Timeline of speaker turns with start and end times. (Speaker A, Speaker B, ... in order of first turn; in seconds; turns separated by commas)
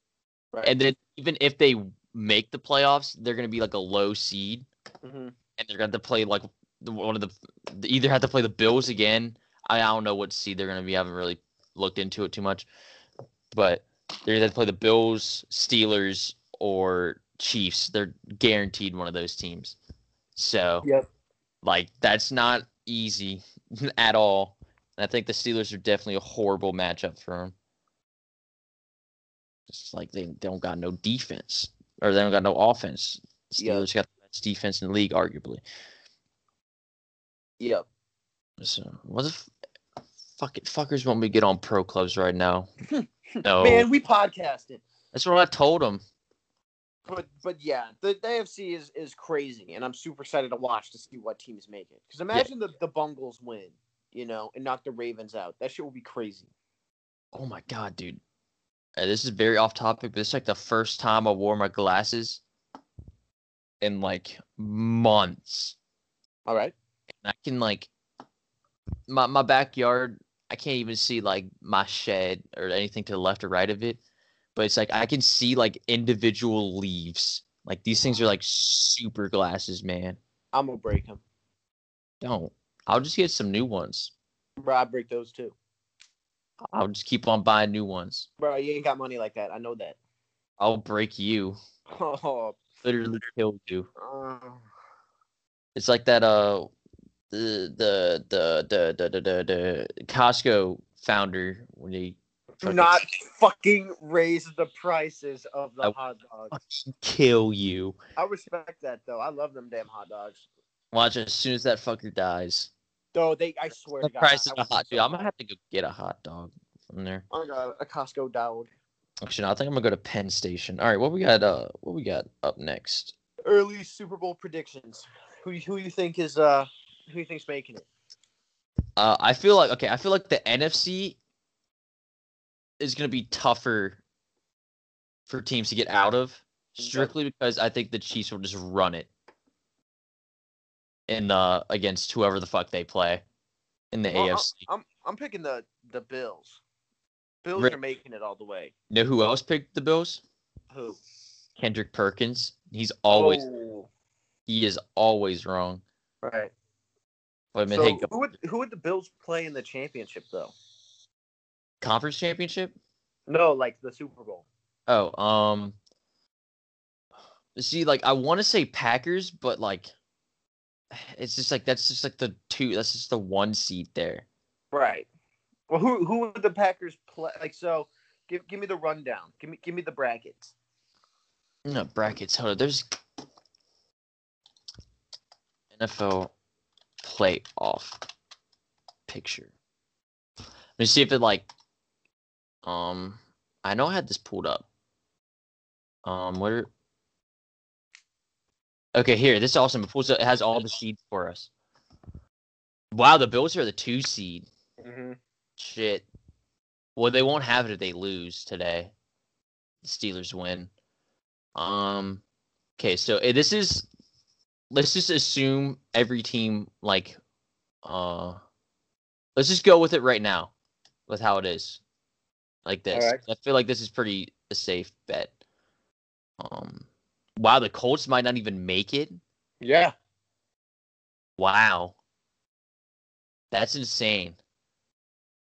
Speaker A: 0.7-4.7, Speaker B: 5.0-5.3, Speaker A: 5.6-12.7, Speaker A: 13.5-19.8, Speaker A: 20.4-20.9, Speaker A: 21.6-27.5, Speaker A: 29.7-35.6, Speaker B: 33.6-33.9, Speaker B: 37.6-37.9, Speaker A: 38.6-39.5, Speaker A: 40.4-42.7, Speaker B: 42.9-44.8, Speaker A: 43.4-43.9, Speaker A: 45.1-46.0, Speaker B: 47.1-56.5, Speaker A: 57.3-58.2, Speaker A: 59.0-62.4, Speaker A: 63.8-65.8, Speaker B: 66.5-66.7, Speaker A: 67.2-67.9, Speaker A: 69.1-74.0, Speaker A: 74.6-80.2, Speaker B: 80.5-81.2, Speaker A: 82.2-84.1, Speaker B: 84.6-85.5, Speaker A: 86.7-88.3, Speaker B: 88.4-90.0, Speaker A: 90.6-91.6, Speaker B: 91.9-92.6, Speaker A: 92.8-93.9, Speaker B: 94.0-94.6, Speaker A: 95.8-96.7, Speaker A: 97.3-103.0, Speaker B: 102.6-106.5, Speaker A: 106.5-108.0, Speaker B: 108.2-110.4, Speaker A: 110.9-112.7, Speaker B: 113.1-115.3, Speaker A: 114.0-117.2, Speaker B: 117.3-118.7, Speaker A: 119.2-123.1, Speaker B: 123.5-127.9, Speaker A: 129.0-131.2, Speaker A: 132.8-134.0, Speaker A: 135.3-139.1, Speaker B: 136.8-137.1, Speaker A: 141.1-143.2, Speaker A: 143.9-144.6, Speaker B: 144.1-146.6, Speaker B: 147.4-148.7, Speaker A: 148.9-150.2, Speaker B: 150.7-151.0, Speaker A: 151.6-153.4, Speaker B: 153.1-153.9, Speaker A: 154.5-155.8, Speaker B: 156.2-156.5, Speaker A: 157.5-158.1, Speaker B: 157.7-160.5, Speaker A: 161.8-162.8, Speaker B: 163.3-164.5, Speaker A: 164.9-165.8, Speaker A: 167.6-169.9, Speaker A: 170.9-174.2, Speaker B: 174.7-175.1, Speaker B: 175.7-180.5, Speaker A: 181.7-182.9, Speaker A: 185.7-186.3, Speaker A: 187.0-188.0, Speaker A: 189.1-189.5, Speaker A: 190.8-191.5, Speaker A: 192.6-194.7, Speaker A: 196.1-196.7, Speaker A: 198.9-201.5, Speaker A: 202.9-204.5, Speaker B: 204.8-205.2, Speaker A: 205.6-206.1, Speaker A: 207.0-208.9, Speaker A: 209.8-210.7, Speaker A: 211.6-212.2, Speaker A: 212.8-213.9, Speaker A: 214.7-217.2, Speaker A: 217.8-218.4, Speaker A: 219.4-220.5, Speaker A: 221.1-221.8, Speaker A: 222.7-225.3, Speaker B: 222.9-223.2, Speaker A: 226.4-229.2, Speaker B: 229.6-229.9, Speaker A: 231.4-231.9, Speaker A: 233.5-234.4